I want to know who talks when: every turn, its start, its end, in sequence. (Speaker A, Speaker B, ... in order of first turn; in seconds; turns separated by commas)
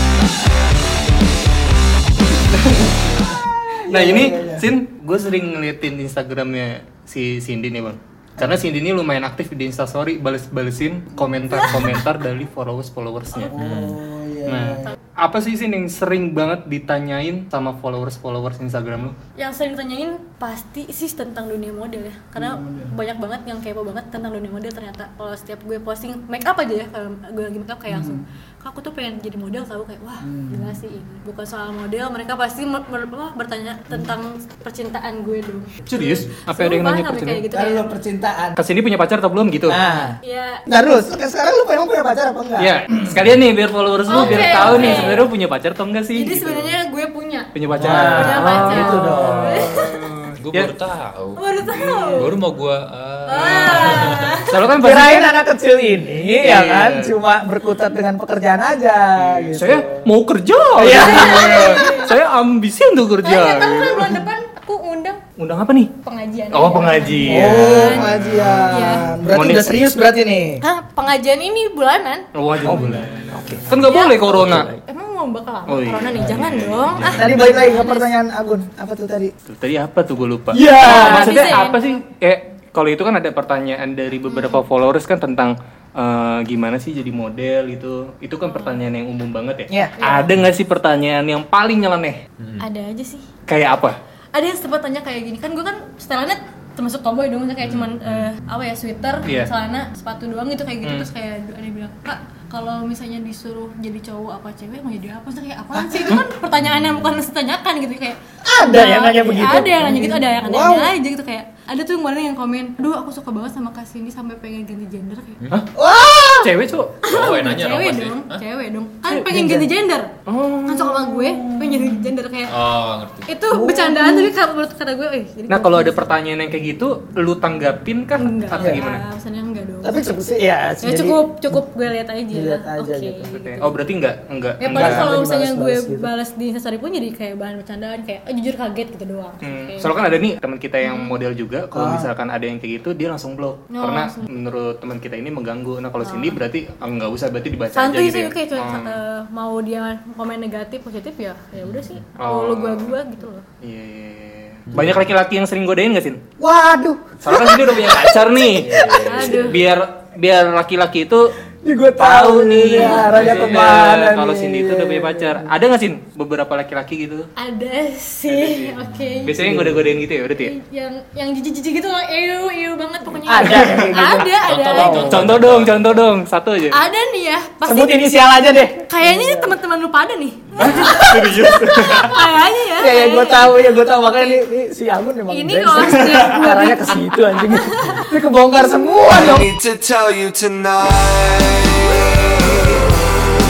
Speaker A: 2.6-3.0, Speaker B: 3.2-4.7, Speaker A: 3.9-13.6, Speaker B: 8.4-8.6, Speaker C: 11.3-12.0, Speaker B: 13.5-14.9, Speaker D: 13.6-14.0, Speaker A: 14.5-19.1, Speaker C: 19.4-37.9, Speaker B: 22.4-23.0, Speaker B: 27.9-28.2, Speaker B: 30.2-30.8, Speaker A: 35.9-37.5, Speaker B: 37.5-38.6, Speaker A: 38.6-39.8, Speaker B: 39.7-43.2, Speaker C: 40.2-40.6, Speaker A: 42.6-46.8, Speaker C: 44.1-45.3, Speaker D: 44.1-44.9, Speaker B: 44.8-45.1, Speaker C: 46.1-50.1, Speaker A: 47.5-50.7, Speaker B: 47.8-49.8, Speaker D: 50.4-51.5, Speaker C: 51.4-52.3, Speaker A: 51.7-52.4, Speaker D: 52.2-54.3, Speaker C: 53.3-54.5, Speaker A: 53.7-55.4, Speaker B: 54.8-60.0, Speaker A: 56.3-57.1, Speaker A: 59.2-64.2, Speaker B: 60.8-61.9, Speaker C: 60.8-62.1, Speaker C: 63.2-65.2, Speaker A: 65.4-65.9, Speaker C: 66.0-69.1, Speaker A: 66.5-69.8, Speaker B: 67.2-70.6, Speaker C: 70.6-72.2, Speaker A: 72.3-74.7, Speaker B: 72.6-73.7, Speaker C: 73.7-78.2, Speaker D: 74.4-74.8, Speaker A: 75.7-77.5, Speaker B: 77.0-79.3, Speaker A: 79.5-92.2, Speaker B: 80.5-81.5, Speaker C: 80.6-82.0, Speaker C: 84.3-84.6, Speaker C: 88.4-88.9, Speaker B: 89.7-90.0, Speaker C: 90.0-90.3, Speaker C: 92.6-93.3, Speaker A: 93.5-94.0, Speaker C: 94.3-115.4, Speaker D: 97.6-98.3, Speaker A: 99.3-99.5, Speaker B: 105.7-106.2, Speaker D: 106.7-107.0, Speaker B: 108.4-110.9, Speaker B: 115.8-116.5, Speaker A: 116.4-117.0, Speaker D: 117.0-118.4, Speaker C: 117.0-120.1, Speaker B: 119.2-119.7, Speaker A: 120.3-122.1, Speaker C: 120.6-126.2, Speaker D: 122.5-123.3, Speaker B: 123.5-124.3, Speaker A: 125.5-129.0, Speaker C: 128.2-130.1, Speaker B: 129.8-131.6, Speaker C: 130.8-133.8, Speaker B: 132.3-133.3, Speaker A: 133.3-135.1, Speaker C: 134.6-140.0, Speaker B: 134.7-136.1, Speaker A: 139.4-149.0, Speaker C: 140.8-141.2, Speaker B: 141.7-142.1, Speaker C: 143.7-144.3, Speaker C: 146.0-146.4, Speaker C: 147.7-153.4, Speaker D: 151.5-151.9, Speaker A: 152.2-153.0, Speaker A: 153.6-156.2, Speaker D: 154.7-155.0, Speaker B: 156.4-159.6, Speaker A: 157.2-161.3, Speaker C: 158.9-159.6, Speaker B: 161.6-165.5, Speaker A: 162.0-167.3, Speaker C: 162.8-163.3, Speaker D: 163.3-163.7, Speaker C: 167.4-169.4, Speaker A: 168.3-170.6, Speaker B: 169.4-170.0, Speaker C: 170.4-175.3, Speaker B: 173.3-175.1, Speaker D: 174.4-176.1, Speaker A: 175.0-176.8, Speaker C: 176.7-178.1, Speaker B: 177.6-179.6, Speaker C: 178.8-184.4, Speaker A: 180.6-182.2, Speaker B: 180.7-181.4, Speaker B: 182.8-189.5, Speaker C: 185.3-188.1, Speaker E: 189.3-191.7